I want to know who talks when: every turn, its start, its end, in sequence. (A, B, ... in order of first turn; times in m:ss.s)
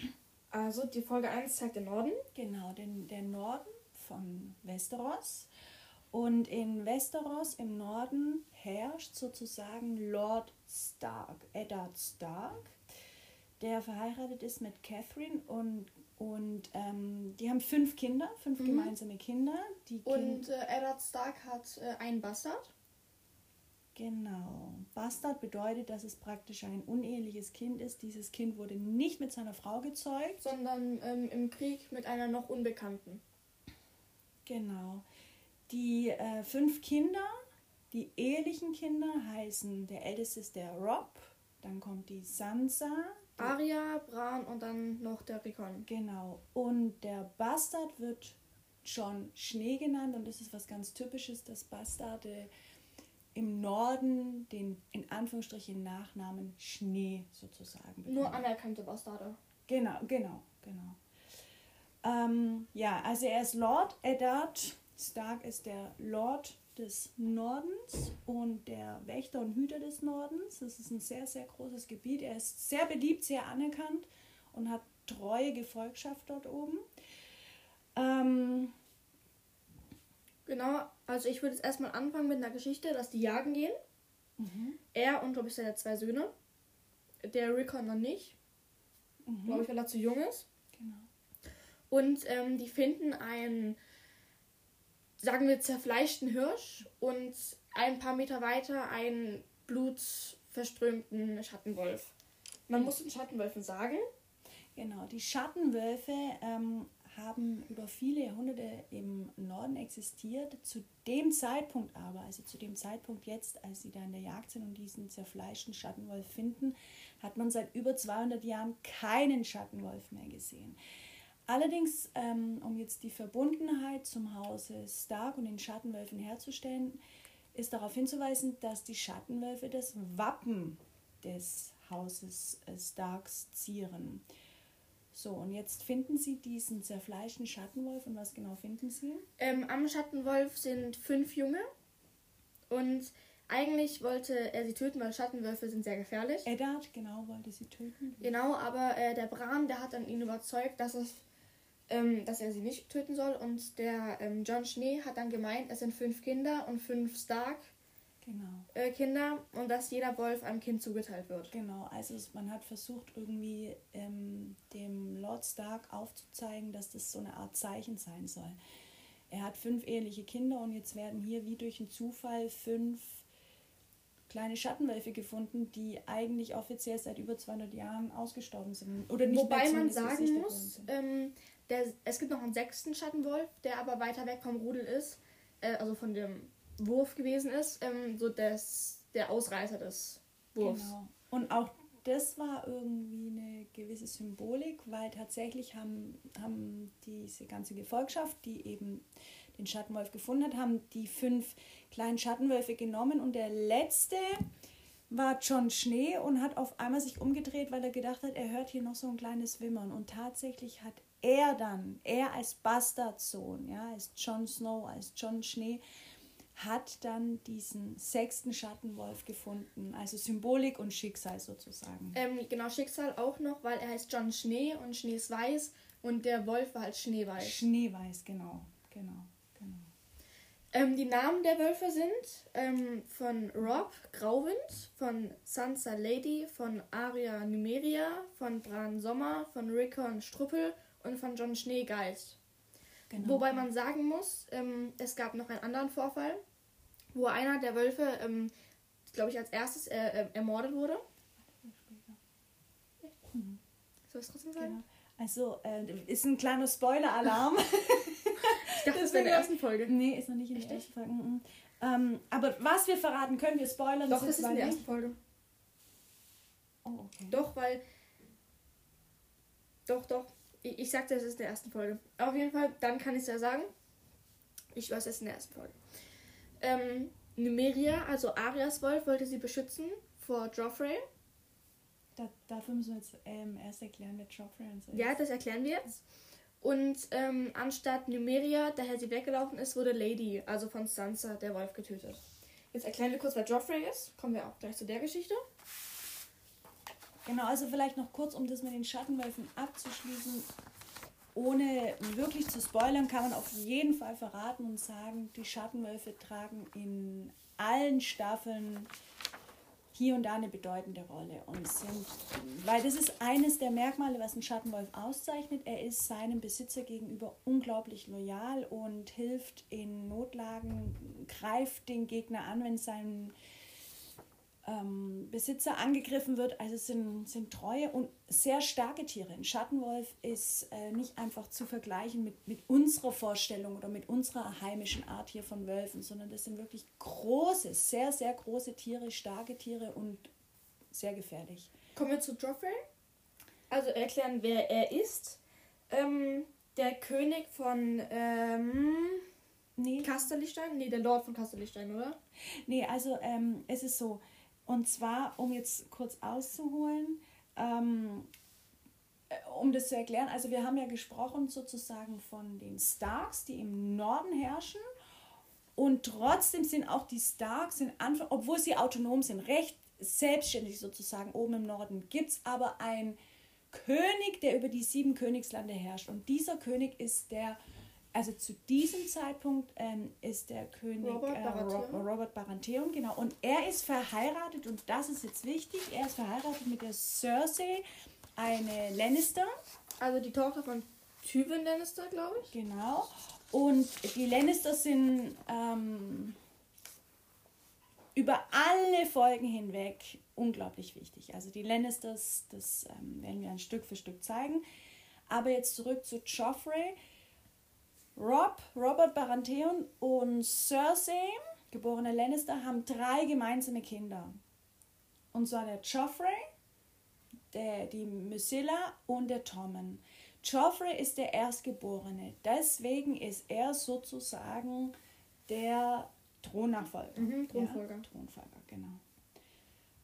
0:00.5-0:02.2 A
0:02.3-0:05.5 B
0:06.1-0:12.8 B
0:13.6-0:20.4 B
0:18.6-0:18.9 A
0:20.0-0:22.7 A
0:23.9-0:30.4 B
0:30.4-0:33.2 A
0:34.4-0:35.0 B
0:35.7-0:37.4 B
0:37.9-0:43.6 B
0:43.4-0:45.8 A
0:45.9-0:52.5 B
0:53.3-0:58.4 B
0:58.0-0:59.4 A
0:59.7-1:01.0 B
1:02.0-1:16.8 B
1:17.9-1:18.7 B
1:20.4-1:23.8 A
1:24.4-1:24.8 B
1:24.9-1:26.3 A
1:27.2-1:28.4 A
1:29.2-1:29.6 B
1:29.4-1:30.4 A
1:30.7-1:31.1 B
1:31.9-1:33.8 A
1:35.2-1:42.1 A
1:42.7-1:44.0 A
1:44.8-2:00.8 B
2:01.5-2:07.0 B
2:07.5-2:14.2 B
2:15.1-2:19.2 B
2:19.4-2:21.6 A
2:22.7-2:26.5 A
2:26.4-2:28.3 B
2:28.2-2:31.2 A
2:31.9-2:37.7 A
2:38.2-2:38.7 B
2:38.7-2:41.5 A
2:41.5-2:48.6 B
2:49.3-2:53.2 B
2:54.3-3:00.9 B
2:59.3-3:10.9 A
3:10.6-3:24.4 B
3:25.1-3:35.8 B
3:36.5-3:42.2 B
3:42.1-3:47.6 A
3:47.4-3:49.9 B
3:50.7-4:02.4 A
4:03.1-4:03.6 B
4:03.2-4:06.4 A
4:07.1-4:08.5 A
4:09.1-4:11.0 A
4:11.5-4:12.2 B
4:13.2-4:13.6 B
4:14.1-4:14.8 A
4:14.6-4:24.8 B
4:18.4-4:19.9 A
4:20.5-4:20.8 A
4:24.1-4:25.2 A
4:26.8-4:27.4 B
4:27.3-4:27.8 A
4:29.9-4:33.7 A
4:34.7-4:35.8 A
4:36.6-4:41.0 A
4:42.2-4:45.2 B
4:44.9-4:46.0 A
4:46.6-4:55.4 A
4:57.2-5:00.5 B
5:01.3-5:08.9 B
5:09.9-5:23.3 B
5:24.6-5:40.3 B
5:40.9-5:41.7 B
5:41.9-5:42.8 A
5:43.7-5:49.2 A
5:49.8-5:50.1 B
5:50.0-5:52.2 A
5:52.7-5:58.3 B
5:59.3-6:04.8 B
6:05.8-6:13.2 B
6:13.7-6:17.6 B
6:18.1-6:27.8 B
6:21.0-6:22.0 A
6:28.4-6:29.5 B
6:30.0-6:32.5 A
6:32.5-6:36.4 B
6:38.2-6:44.6 B
6:45.3-6:47.0 B
6:48.2-6:54.3 B
6:55.3-6:56.4 B
6:57.5-7:04.9 B
7:05.5-7:09.0 B
7:07.2-7:08.0 A